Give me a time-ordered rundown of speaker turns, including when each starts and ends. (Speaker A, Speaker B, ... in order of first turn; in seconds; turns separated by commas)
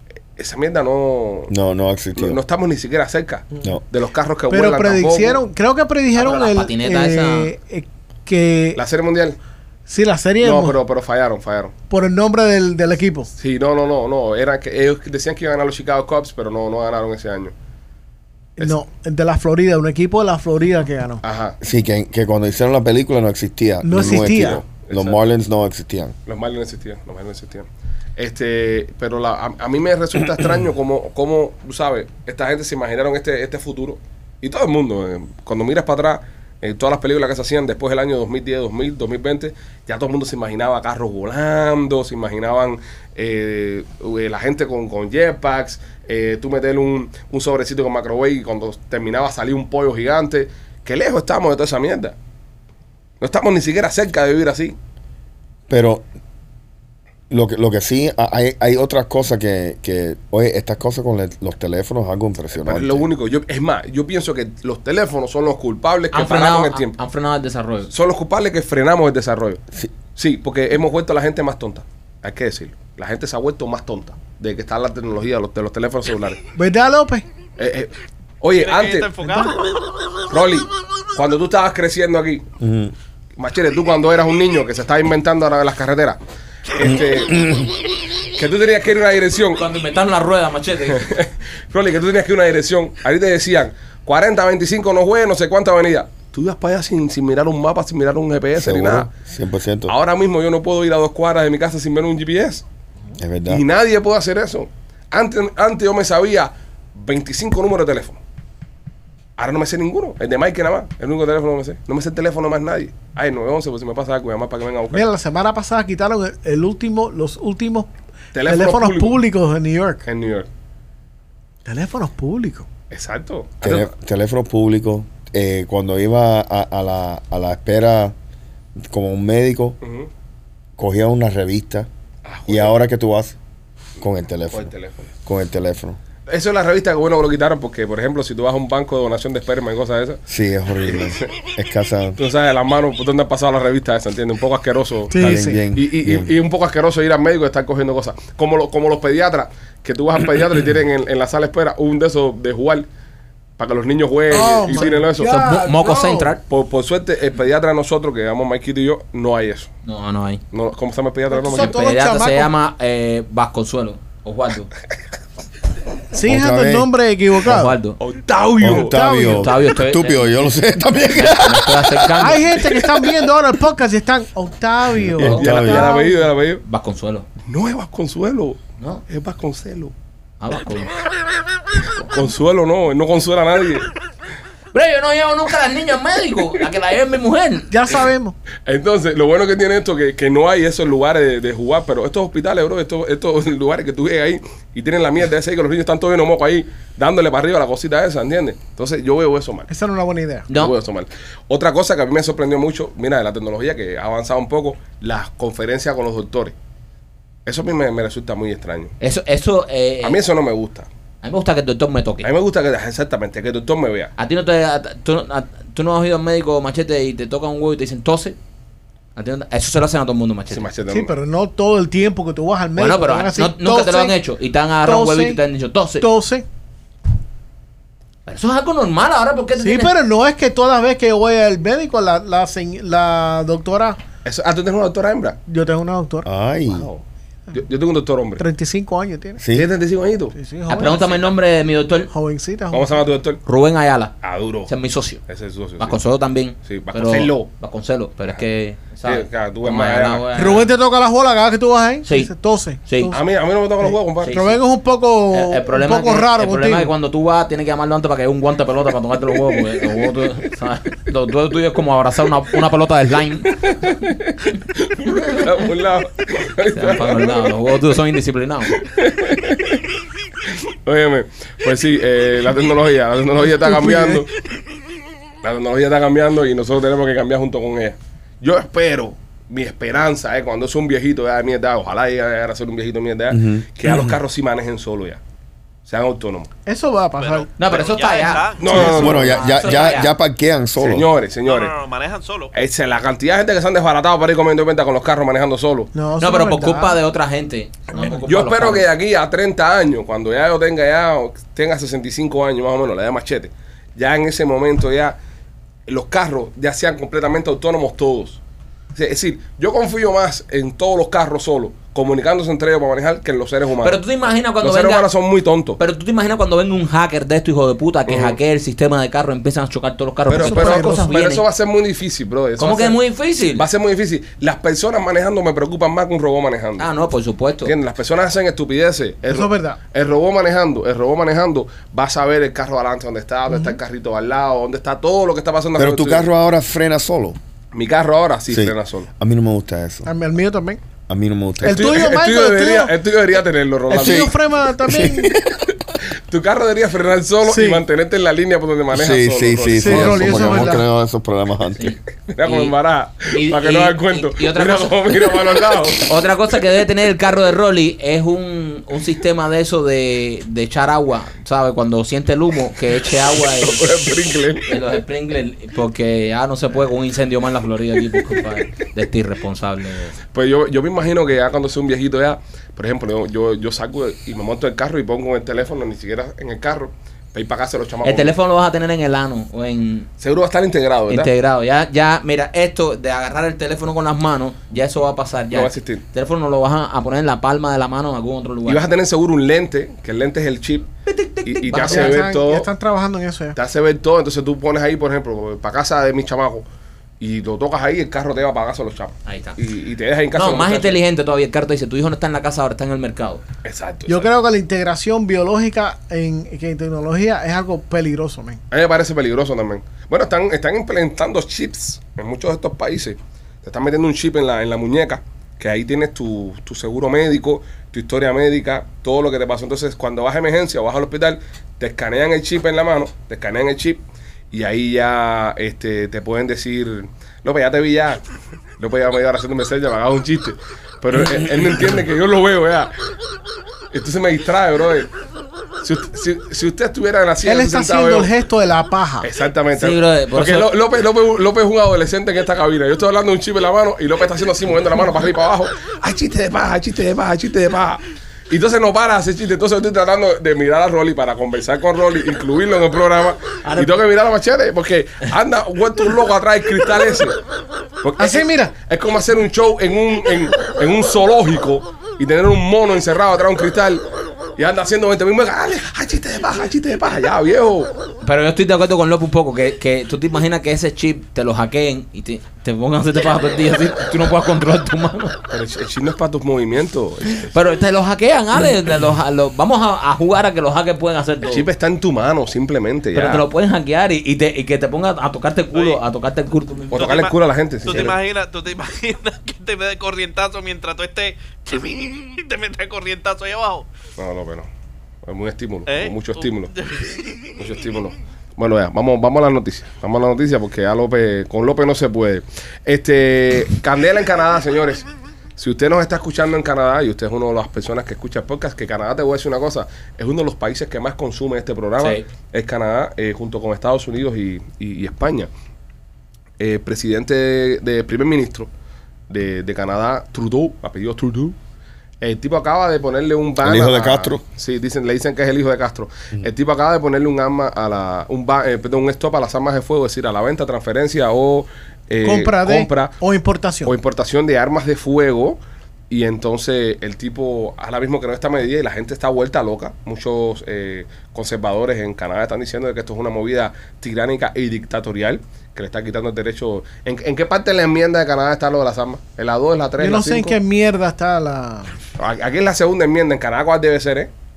Speaker A: 0.4-1.5, Speaker B: 1.5-2.4, Speaker A: 2.1-5.4, Speaker C: 4.5-8.8, Speaker D: 6.1-7.5, Speaker A: 8.8-9.4, Speaker C: 9.9-10.8, Speaker A: 10.4-11.7, Speaker C: 11.9-13.3, Speaker A: 13.4-17.5, Speaker C: 18.6-21.2, Speaker A: 21.2-21.6, Speaker B: 21.6-26.1, Speaker C: 23.8-24.6, Speaker A: 23.9-25.2, Speaker A: 26.3-52.2, Speaker A: 53.2-54.8, Speaker B: 55.7-56.1, Speaker B: 57.3-63.0, Speaker A: 62.6-67.0, Speaker D: 66.1-67.9, Speaker A: 67.9-69.6, Speaker A: 70.2-76.4, Speaker C: 76.6-77.2, Speaker A: 77.6-79.2, Speaker E: 78.5-79.6, Speaker C: 79.2-79.5, Speaker A: 80.3-82.5, Speaker B: 82.6-82.9, Speaker A: 83.4-86.2, Speaker A: 86.7-87.6, Speaker B: 87.3-87.7, Speaker A: 88.4-89.7, Speaker D: 89.5-91.1, Speaker A: 90.9-99.1, Speaker B: 98.5-99.9, Speaker A: 99.9-102.7, Speaker B: 103.2-103.6, Speaker A: 103.5-108.2, Speaker A: 109.4-115.0, Speaker C: 114.9-117.9, Speaker A: 118.3-119.2, Speaker C: 118.5-120.0, Speaker A: 120.0-120.5, Speaker C: 121.7-122.7, Speaker A: 122.9-123.9, Speaker B: 123.6-128.2, Speaker B: 128.8-129.8, Speaker A: 129.8-130.1, Speaker B: 130.8-131.9, Speaker A: 132.2-132.8, Speaker B: 132.5-133.4, Speaker B: 134.0-134.7, Speaker A: 134.5-135.1, Speaker B: 135.2-136.0, Speaker A: 136.3-140.2, Speaker B: 140.3-142.2, Speaker A: 140.9-141.3, Speaker A: 142.2-152.9, Speaker C: 145.1-145.6, Speaker B: 145.1-146.3, Speaker A: 153.6-155.6, Speaker C: 154.3-156.3, Speaker D: 155.2-156.4, Speaker A: 156.5-159.7, Speaker D: 159.8-160.4, Speaker A: 160.5-161.8, Speaker C: 161.3-162.5, Speaker D: 161.4-164.7, Speaker C: 166.1-167.8, Speaker B: 166.2-166.9, Speaker D: 167.4-168.0, Speaker A: 168.0-169.0, Speaker B: 168.6-172.1, Speaker C: 168.7-169.5, Speaker D: 169.2-170.5, Speaker D: 171.1-172.5, Speaker C: 172.2-176.3, Speaker B: 174.9-175.9, Speaker A: 175.2-176.6, Speaker D: 176.6-177.3, Speaker A: 177.5-179.9, Speaker D: 180.4-181.0, Speaker A: 182.0-183.9, Speaker D: 184.7-187.7, Speaker C: 187.7-188.4, Speaker A: 188.7-199.7, Speaker C: 199.7-200.5, Speaker D: 200.5-200.7, Speaker A: 200.5-206.6, Speaker A: 207.5-208.9, Speaker D: 209.0-210.2, Speaker A: 210.0-210.9, Speaker D: 211.2-212.3, Speaker A: 212.2-214.1, Speaker D: 214.2-218.4, Speaker D: 219.2-220.7, Speaker A: 220.5-221.1, Speaker C: 220.9-224.2, Speaker D: 222.8-226.1, Speaker C: 224.8-225.4, Speaker C: 226.0-226.5, Speaker D: 228.3-229.9, Speaker C: 229.6-234.0, Speaker A: 234.2-235.4, Speaker C: 235.5-236.3, Speaker B: 236.2-236.9, Speaker A: 236.7-238.4, Speaker C: 238.4-239.4, Speaker B: 239.4-239.7, Speaker A: 239.5-240.3, Speaker C: 240.3-241.1, Speaker D: 240.7-242.1, Speaker C: 242.1-243.1, Speaker A: 242.7-243.4, Speaker D: 243.5-244.2, Speaker A: 244.2-244.7, Speaker D: 244.7-245.2, Speaker A: 245.3-246.0, Speaker D: 245.8-250.7, Speaker A: 246.6-247.5, Speaker A: 249.0-250.3, Speaker C: 250.3-253.3, Speaker D: 252.1-252.3, Speaker D: 252.9-253.2, Speaker A: 253.1-254.5, Speaker C: 253.8-256.9, Speaker D: 254.2-254.6, Speaker D: 255.3-263.7, Speaker A: 263.5-267.5, Speaker D: 265.1-265.4, Speaker D: 266.7-268.8, Speaker A: 268.7-269.8, Speaker A: 270.5-274.3, Speaker C: 273.7-274.2, Speaker A: 275.4-285.2, Speaker B: 283.3-284.1, Speaker A: 285.9-286.5, Speaker C: 286.6-287.5, Speaker E: 287.2-289.2, Speaker D: 287.6-290.1, Speaker A: 288.6-289.4, Speaker C: 288.7-289.1, Speaker B: 288.7-291.1, Speaker A: 290.8-291.8, Speaker E: 291.5-292.5, Speaker A: 292.5-295.9, Speaker C: 295.9-297.0, Speaker D: 296.2-298.9, Speaker A: 298.0-305.2, Speaker A: 305.9-308.4, Speaker A: 308.9-314.0, Speaker D: 313.8-315.1, Speaker A: 314.6-315.8, Speaker D: 315.8-321.4, Speaker A: 318.1-318.4, Speaker A: 320.3-323.0, Speaker C: 320.4-321.1, Speaker D: 322.6-323.6, Speaker A: 323.5-326.9, Speaker D: 326.8-327.7, Speaker A: 327.6-336.3, Speaker C: 329.3-329.8, Speaker B: 335.8-337.4, Speaker A: 337.7-339.1, Speaker B: 338.5-340.1, Speaker C: 340.1-340.8, Speaker B: 341.1-342.0, Speaker C: 341.6-342.9, Speaker A: 341.7-344.3, Speaker C: 343.9-345.4, Speaker B: 344.0-344.3, Speaker B: 344.9-345.5, Speaker A: 346.0-350.8, Speaker C: 347.4-347.8, Speaker B: 348.9-351.9, Speaker C: 349.8-350.8, Speaker D: 351.8-352.7, Speaker A: 352.3-356.1, Speaker D: 353.3-363.9, Speaker A: 363.6-364.9, Speaker D: 364.7-370.2, Speaker A: 370.3-378.4, Speaker D: 378.0-380.1, Speaker A: 380.2-381.3, Speaker D: 381.1-388.8, Speaker A: 385.5-386.1, Speaker A: 388.7-390.9, Speaker D: 391.1-392.3, Speaker A: 391.4-392.7, Speaker C: 391.9-393.6, Speaker A: 393.6-396.7, Speaker A: 397.2-401.0, Speaker D: 399.3-399.6, Speaker D: 400.3-403.4, Speaker A: 403.6-404.3, Speaker C: 404.1-408.6, Speaker A: 408.7-428.2, Speaker A: 428.8-432.9, Speaker A: 433.9-435.1, Speaker A: 435.8-438.3, Speaker C: 437.4-439.3, Speaker A: 439.2-457.4, Speaker D: 439.7-440.7, Speaker D: 453.6-453.9, Speaker A: 458.0-464.1, Speaker C: 458.2-458.7, Speaker A: 464.6-467.9, Speaker D: 468.2-475.4, Speaker A: 475.5-477.5, Speaker D: 477.5-481.7, Speaker A: 481.4-483.4, Speaker D: 483.1-487.2, Speaker E: 485.7-486.0, Speaker A: 486.9-488.2, Speaker E: 486.9-493.9, Speaker A: 494.2-494.7, Speaker A: 495.2-496.7, Speaker E: 495.9-497.5, Speaker A: 497.6-515.5, Speaker D: 512.0-512.2, Speaker A: 516.6-518.7, Speaker A: 519.3-521.5, Speaker A: 522.2-533.2, Speaker B: 523.6-524.4, Speaker C: 532.2-533.9, Speaker A: 533.9-535.6, Speaker A: 536.1-550.6, Speaker C: 550.0-552.0, Speaker A: 552.2-554.3